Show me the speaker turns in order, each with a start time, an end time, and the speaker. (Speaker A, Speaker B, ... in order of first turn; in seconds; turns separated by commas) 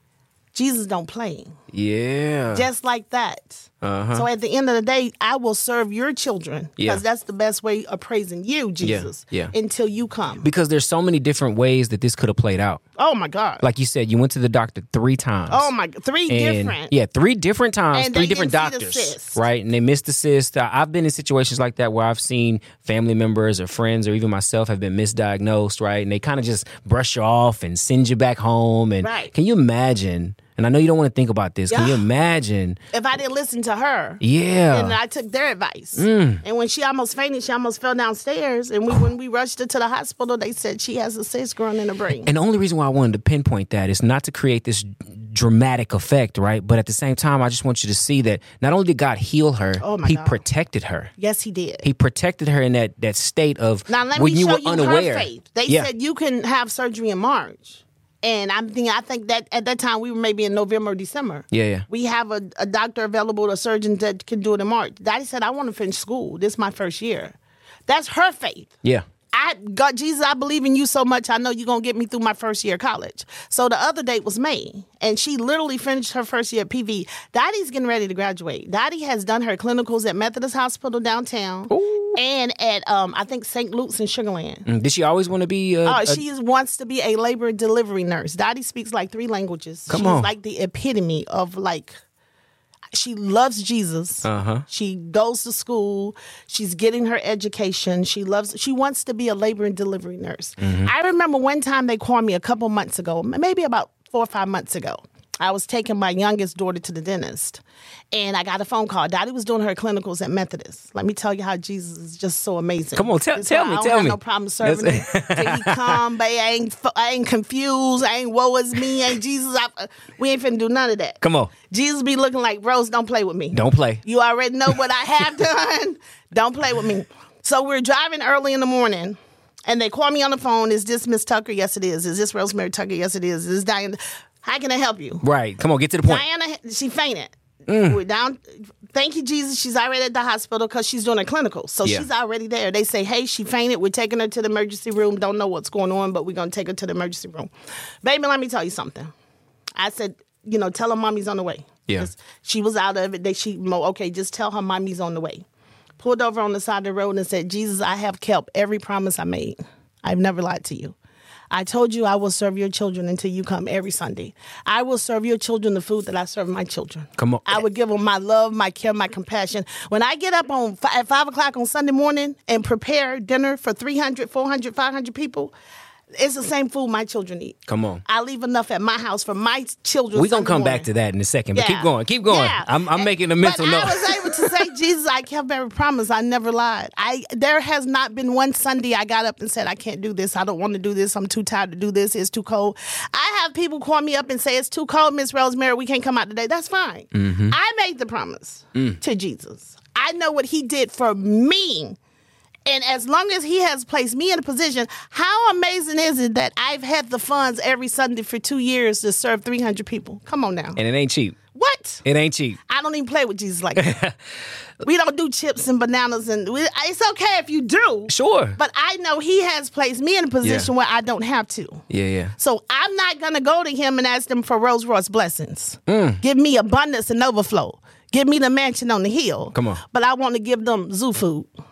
Speaker A: 0.5-1.6, Speaker B: 1.7-2.7, Speaker A: 2.5-10.5, Speaker B: 3.8-4.3, Speaker B: 8.8-9.5, Speaker B: 10.4-12.8, Speaker A: 13.0-13.6, Speaker B: 13.6-15.7, Speaker A: 15.5-16.9, Speaker B: 16.3-32.8, Speaker A: 17.9-19.4, Speaker A: 29.0-29.3, Speaker A: 31.7-32.0, Speaker A: 32.9-42.3, Speaker B: 34.2-35.0, Speaker B: 36.0-36.4, Speaker B: 42.2-51.1, Speaker A: 49.8-50.4, Speaker A: 51.2-51.8, Speaker B: 51.8-55.9, Speaker A: 53.9-67.3, Speaker B: 61.5-61.9, Speaker A: 67.9-68.7, Speaker A: 69.3-84.7, Speaker B: 81.7-82.2, Speaker B: 84.7-86.2, Speaker A: 85.8-91.9, Speaker B: 89.9-90.3, Speaker A: 92.9-107.6, Speaker B: 94.2-94.6, Speaker B: 100.6-100.9, Speaker A: 108.1-135.2, Speaker B: 112.9-116.0, Speaker B: 121.2-121.5, Speaker B: 123.5-124.0, Speaker B: 135.2-136.2, Speaker A: 136.0-147.5, Speaker B: 137.7-138.0, Speaker A: 148.0-149.1, Speaker A: 149.8-155.4, Speaker A: 156.0-160.9, Speaker A: 161.5-175.5, Speaker B: 167.2-167.6, Speaker A: 176.2-180.9, Speaker B: 177.7-178.0, Speaker B: 180.1-184.6, Speaker A: 181.5-202.0, Speaker B: 197.1-197.5, Speaker A: 202.7-210.8, Speaker B: 210.8-211.4, Speaker A: 211.5-212.0, Speaker B: 212.0-212.6, Speaker A: 212.7-213.9, Speaker B: 213.8-214.1, Speaker A: 214.8-221.8, Speaker B: 218.1-218.6, Speaker B: 220.4-220.7, Speaker B: 221.9-222.3, Speaker A: 222.4-231.5, Speaker B: 225.9-226.2, Speaker B: 229.5-229.8